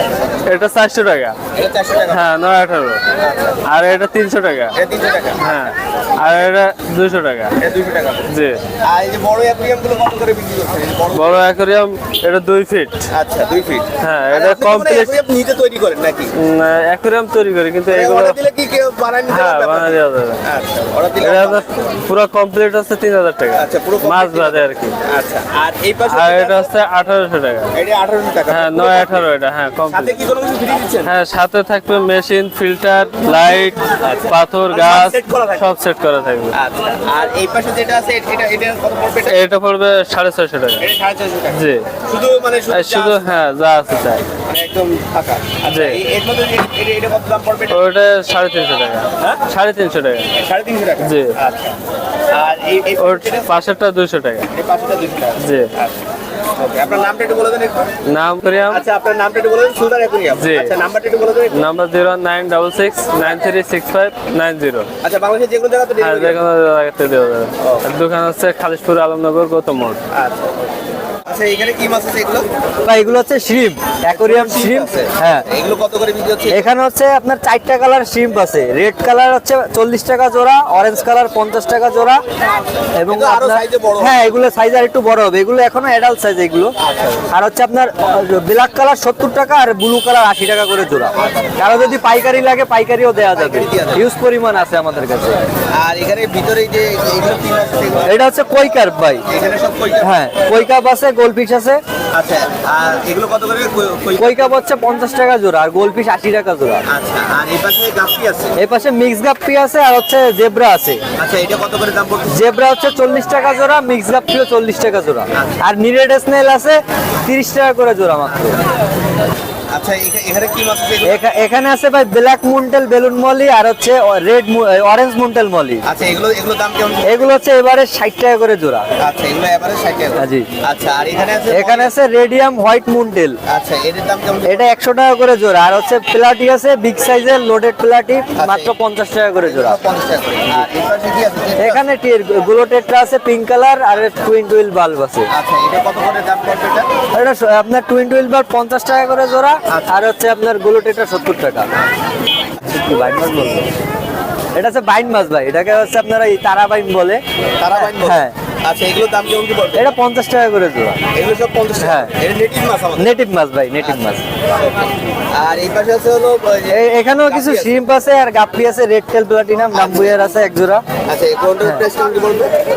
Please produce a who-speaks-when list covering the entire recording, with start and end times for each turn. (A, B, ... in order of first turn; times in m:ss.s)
0:00.4-0:01.4 A
0:01.5-0:02.2 B
0:02.1-0:03.0 A
0:03.2-0:03.6 B
0:03.6-0:04.8 A
0:04.7-0:05.5 B
0:05.4-0:07.5 A
0:07.6-0:08.3 B
0:08.3-0:08.6 A
0:08.8-0:11.4 B
0:11.1-0:13.0 A
0:13.1-0:16.3 B
0:14.0-0:15.2 A
0:16.4-0:18.4 A
0:17.9-0:21.8 B
0:19.3-0:20.4 A
0:21.2-0:25.0 A
0:23.6-0:26.7 B
0:26.1-0:27.7 A
0:27.8-0:29.2 B
0:28.5-0:30.2 A
0:29.9-0:31.1 B
0:31.0-0:36.6 A
0:34.0-0:35.7 B
0:36.5-0:39.4 B
0:39.2-0:40.9 A
0:40.8-0:43.4 B
0:41.5-0:41.8 A
0:42.7-0:44.2 A
0:44.3-0:47.8 B
0:45.6-0:46.0 A
0:47.7-0:50.3 A
0:50.4-0:51.8 B
0:51.0-0:51.3 A
0:52.3-0:53.5 B
0:53.0-0:54.5 A
0:54.5-0:56.0 B
0:55.4-0:55.7 A
0:56.6-0:57.9 B
0:58.1-0:58.8 A
0:58.7-1:01.6 B
1:00.3-1:00.7 A
1:01.5-1:04.9 A
1:05.0-1:06.4 B
1:06.0-1:10.0 A
1:10.1-1:10.6 B
1:11.2-1:12.5 B
1:12.8-1:15.5 C
1:14.1-1:16.7 B
1:16.5-1:22.2 C
1:23.0-1:26.7 C
1:23.1-1:24.3 B
1:26.8-1:27.2 B
1:27.3-1:35.4 C
1:33.3-1:34.1 B
1:35.7-1:38.2 B
1:38.0-1:39.2 C
1:39.2-1:40.2 B
1:40.0-1:41.8 C
1:42.1-1:44.6 B
1:44.2-1:46.8 C
1:46.9-1:48.6 B
1:48.6-1:51.0 C
1:51.2-1:52.4 B
1:52.3-1:58.6 C
1:55.3-1:55.6 B
1:59.7-2:01.2 B
2:01.0-2:05.9 C
2:05.9-2:07.3 B
2:07.0-2:08.9 C
2:09.0-2:11.9 B
2:10.1-2:10.5 C
2:11.5-2:13.4 C
2:13.4-2:14.6 B
2:14.4-2:19.8 C
2:18.3-2:18.7 B
2:19.4-2:21.8 B
2:21.6-2:25.3 C
2:25.3-2:26.9 B
2:27.1-2:31.7 C
2:29.7-2:29.9 B
2:32.6-2:33.7 C
2:34.5-2:38.3 C
2:37.6-2:39.9 B
2:39.7-2:41.0 C
2:41.1-2:43.2 B
2:41.8-2:42.1 C
2:43.0-2:44.2 C
2:43.8-2:44.7 B
2:45.3-2:47.7 B
2:46.7-2:50.8 C
2:49.7-2:50.2 B
2:51.0-2:52.5 B